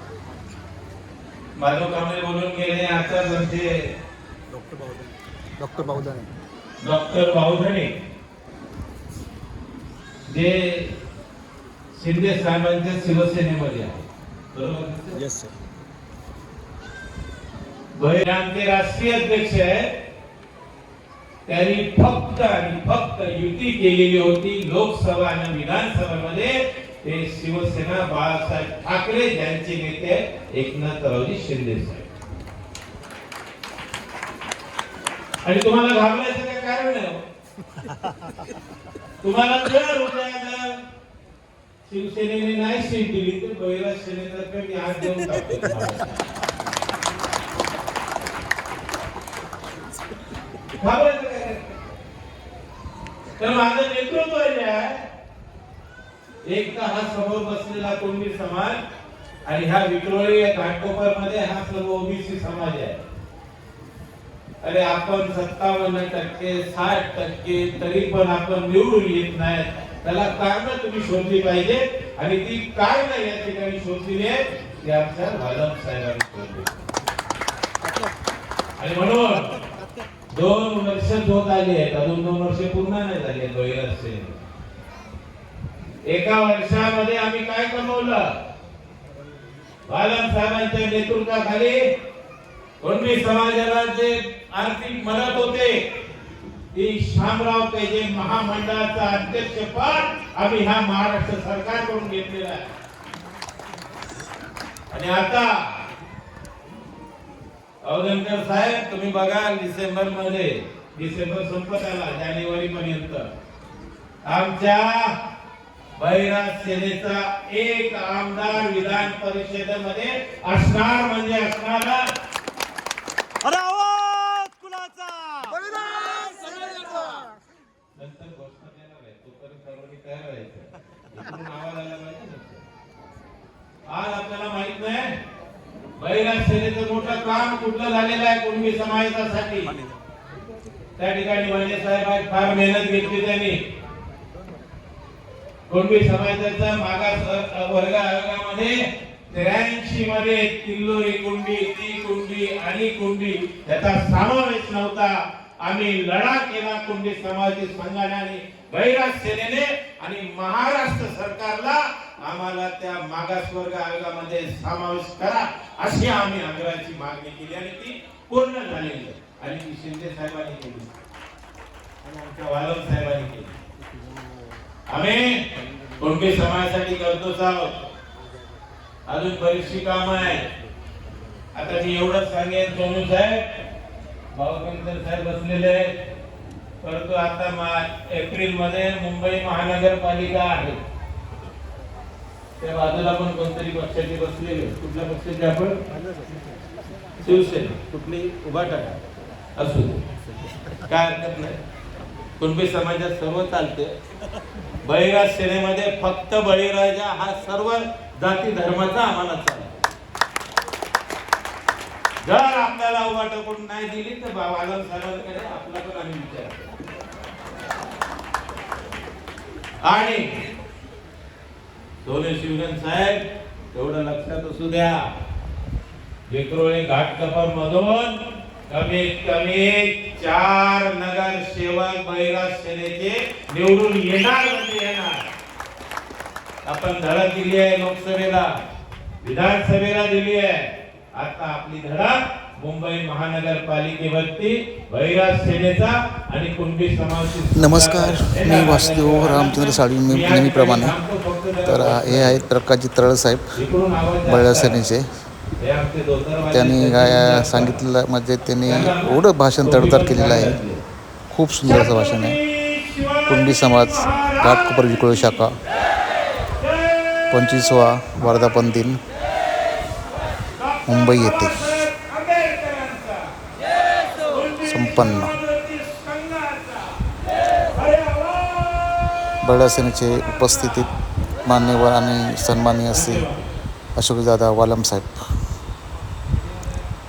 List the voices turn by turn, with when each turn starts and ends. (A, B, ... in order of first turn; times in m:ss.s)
0:01.6-0:03.9 A
0:04.6-0:05.0 B
0:05.6-0:06.3 B
0:06.8-0:07.9 A
0:10.3-0:10.9 A
0:11.9-0:15.2 A
0:18.0-0:19.9 A
0:21.4-0:32.1 A
0:35.4-0:37.2 A
0:39.2-0:40.8 A
0:41.8-0:46.1 A
0:50.8-0:51.8 A
0:53.4-0:55.1 A
0:56.4-0:58.8 A
0:59.4-1:03.0 A
1:04.6-1:16.9 A
1:18.8-1:19.6 A
1:20.3-1:24.4 A
1:26.0-1:28.3 A
1:29.9-1:31.8 A
1:32.8-1:35.8 A
1:36.7-1:42.7 A
1:44.9-1:45.6 A
1:47.8-1:53.3 A
1:54.2-1:55.2 A
1:56.0-2:02.1 A
2:03.6-2:05.7 B
2:06.1-2:07.0 A
2:08.0-2:12.7 A
2:13.9-2:15.2 A
2:16.0-2:19.7 A
2:21.0-2:23.6 A
2:25.7-2:28.8 A
2:29.3-2:51.0 A
2:52.0-2:53.6 A
2:54.9-2:55.4 A
2:56.0-2:57.8 A
2:59.1-3:00.4 A
3:01.5-3:03.4 A
3:04.3-3:05.9 A
3:06.8-3:10.8 A
3:12.6-3:15.8 A
3:17.2-3:19.0 A
3:19.6-3:20.0 A
3:20.9-3:21.6 A
3:22.4-3:23.9 A
3:24.8-3:29.8 A
3:32.2-3:36.7 A
3:39.8-3:40.3 A
3:42.0-3:43.2 A
3:43.7-3:45.1 A
3:46.3-3:48.2 A
3:48.7-3:55.2 A
3:56.6-3:58.5 A
3:59.2-4:12.5 A
4:07.5-4:10.9 C
4:11.6-4:13.6 C
4:13.6-4:14.8 A
4:14.2-4:15.0 C
4:15.6-4:17.8 A
4:16.5-4:20.6 C
4:18.6-4:20.8 A
4:21.3-4:22.4 C
4:21.6-4:25.5 A
4:23.3-4:25.6 C
4:26.5-4:27.4 A
4:27.3-4:29.0 C
4:28.2-4:28.8 A
4:30.5-4:33.4 A
4:30.9-4:31.8 C
4:34.2-4:39.4 A
4:34.6-4:35.4 C
4:39.4-4:40.9 C
4:40.3-4:40.8 A
4:41.4-4:43.3 C
4:42.9-4:43.5 A
4:44.0-4:45.3 C